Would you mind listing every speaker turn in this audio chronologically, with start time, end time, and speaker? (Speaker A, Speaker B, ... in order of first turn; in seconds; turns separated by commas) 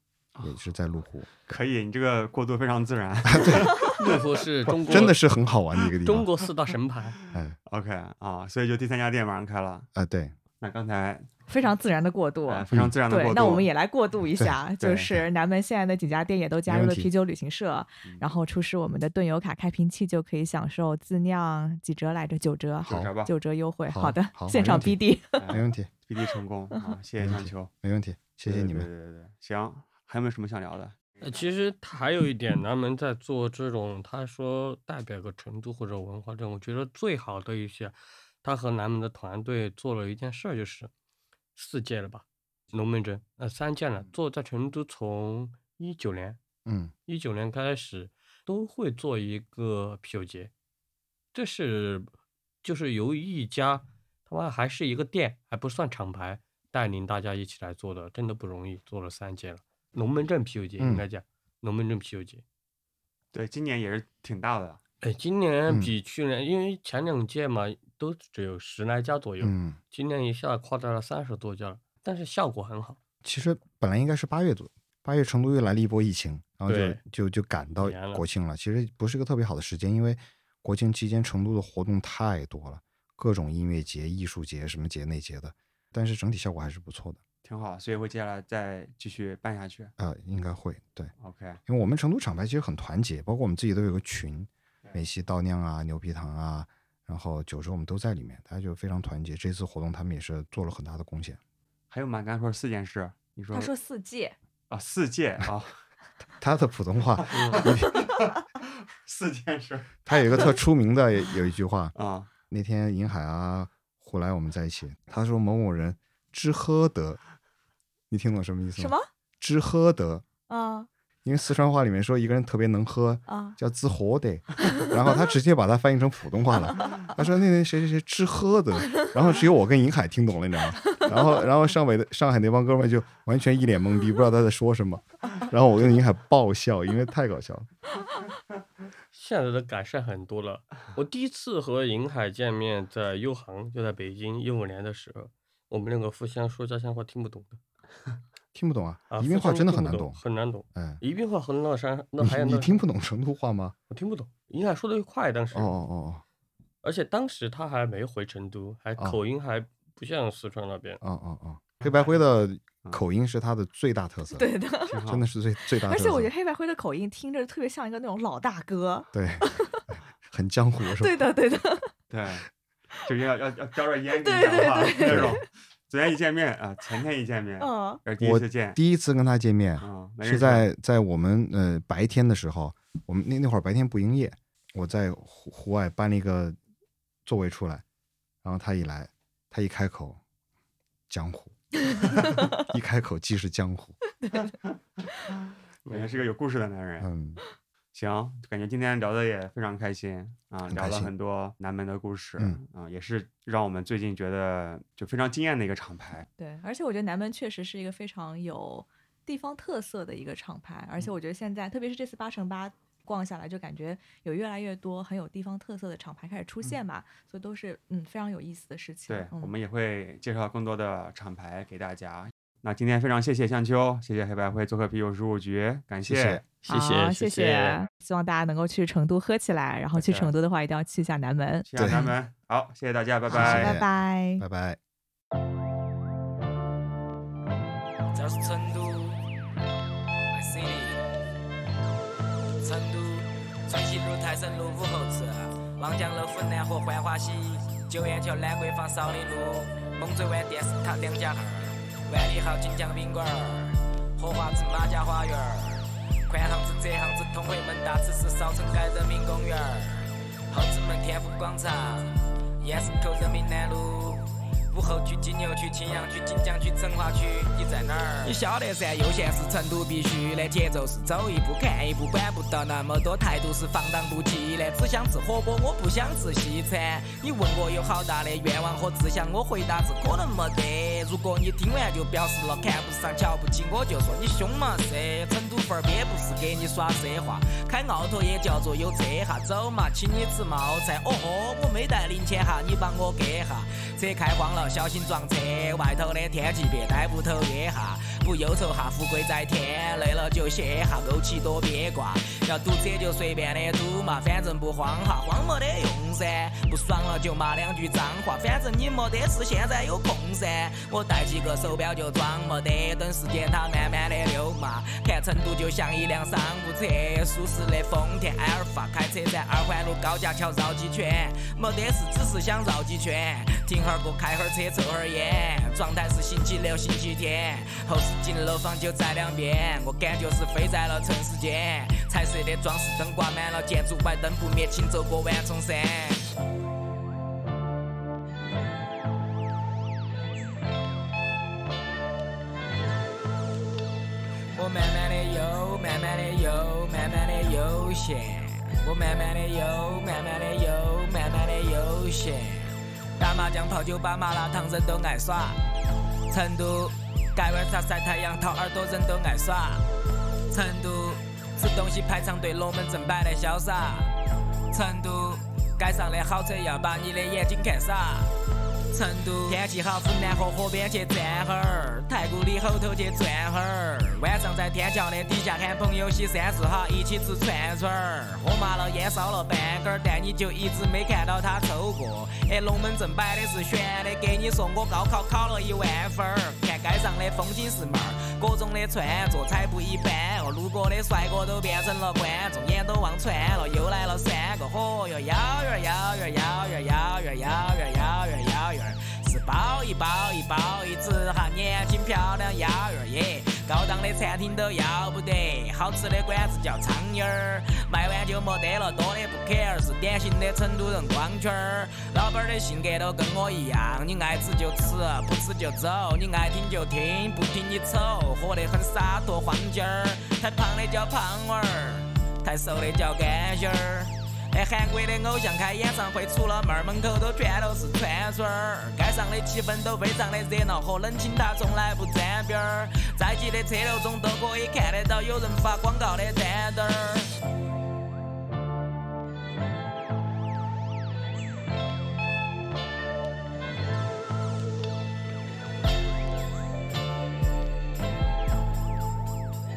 Speaker A: 0.3-0.6, Speaker B: 0.4-1.3, Speaker A: 1.5-4.2, Speaker B: 3.2-3.8, Speaker C: 4.0-5.2, Speaker B: 4.7-6.3, Speaker A: 4.8-5.1, Speaker C: 6.0-7.2, Speaker B: 7.3-7.6, Speaker A: 7.7-9.9, Speaker B: 9.9-10.3, Speaker A: 10.6-11.3, Speaker D: 11.5-25.5, Speaker A: 12.5-13.7, Speaker B: 12.7-13.0, Speaker A: 14.8-15.2, Speaker B: 16.7-17.1, Speaker A: 22.8-23.3, Speaker B: 22.8-23.1, Speaker B: 23.9-25.9, Speaker A: 25.4-27.7, Speaker B: 27.2-28.9, Speaker A: 28.5-31.5, Speaker C: 31.2-40.9, Speaker C: 41.5-46.4, Speaker B: 46.7-46.9, Speaker C: 47.0-50.5, Speaker C: 51.3-52.1, Speaker C: 52.6-62.4, Speaker B: 60.8-61.0, Speaker A: 63.3-64.8, Speaker C: 65.0-73.0, Speaker B: 65.7-66.0, Speaker B: 69.4-69.8, Speaker B: 73.2-87.2, Speaker C: 76.7-77.0, Speaker C: 77.8-78.2, Speaker A: 87.4-89.9, Speaker B: 90.0-91.1, Speaker A: 91.2-91.6, Speaker B: 91.7-101.4, Speaker A: 101.9-103.7, Speaker D: 103.5-104.3, Speaker A: 104.7-105.8, Speaker B: 106.4-108.1, Speaker A: 107.2-110.6, Speaker C: 107.3-107.7, Speaker B: 110.1-111.9, Speaker A: 112.0-112.3, Speaker B: 112.5-117.2, Speaker B: 118.1-120.2, Speaker D: 118.8-119.1, Speaker D: 120.5-120.9, Speaker B: 121.2-137.7, Speaker D: 123.3-123.6, Speaker C: 139.1-147.6, Speaker B: 148.5-150.2, Speaker C: 149.1-152.8, Speaker B: 150.7-151.0, Speaker B: 152.2-153.8, Speaker C: 153.9-155.8, Speaker B: 155.5-156.2, Speaker C: 156.8-161.0, Speaker B: 161.0-164.5, Speaker A: 161.8-162.2, Speaker D: 164.3-165.0, Speaker A: 164.9-165.2, Speaker B: 165.1-166.3, Speaker D: 165.8-169.8, Speaker B: 169.1-171.3, Speaker D: 171.0-171.9, Speaker A: 172.1-172.5, Speaker A: 173.0-178.8, Speaker D: 174.2-175.4, Speaker B: 175.1-175.4, Speaker D: 177.6-178.0, Speaker B: 178.2-186.6, Speaker A: 179.8-180.7, Speaker B: 187.2-187.8, Speaker B: 188.4-190.2, Speaker B: 191.1-191.6, Speaker D: 191.9-192.5, Speaker B: 192.2-194.0, Speaker D: 194.2-194.5, Speaker A: 195.9-197.1, Speaker B: 197.0-197.4, Speaker A: 197.9-206.3, Speaker B: 200.7-201.1, Speaker D: 206.4-219.5, Speaker A: 219.1-226.4, Speaker B: 226.0-226.4, Speaker C: 226.7-227.8, Speaker D: 226.7-232.1, Speaker A: 229.9-230.3, Speaker A: 231.7-233.8, Speaker B: 231.8-232.1, Speaker B: 233.3-234.8, Speaker D: 233.3-234.4, Speaker E: 238.1-239.2, Speaker E: 240.3-241.0, Speaker E: 242.6-336.3, Speaker E: 344.6-355.6, Speaker E: 356.3-359.9, Speaker E: 360.5-364.2, Speaker E: 364.7-368.3, Speaker E: 368.9-437.4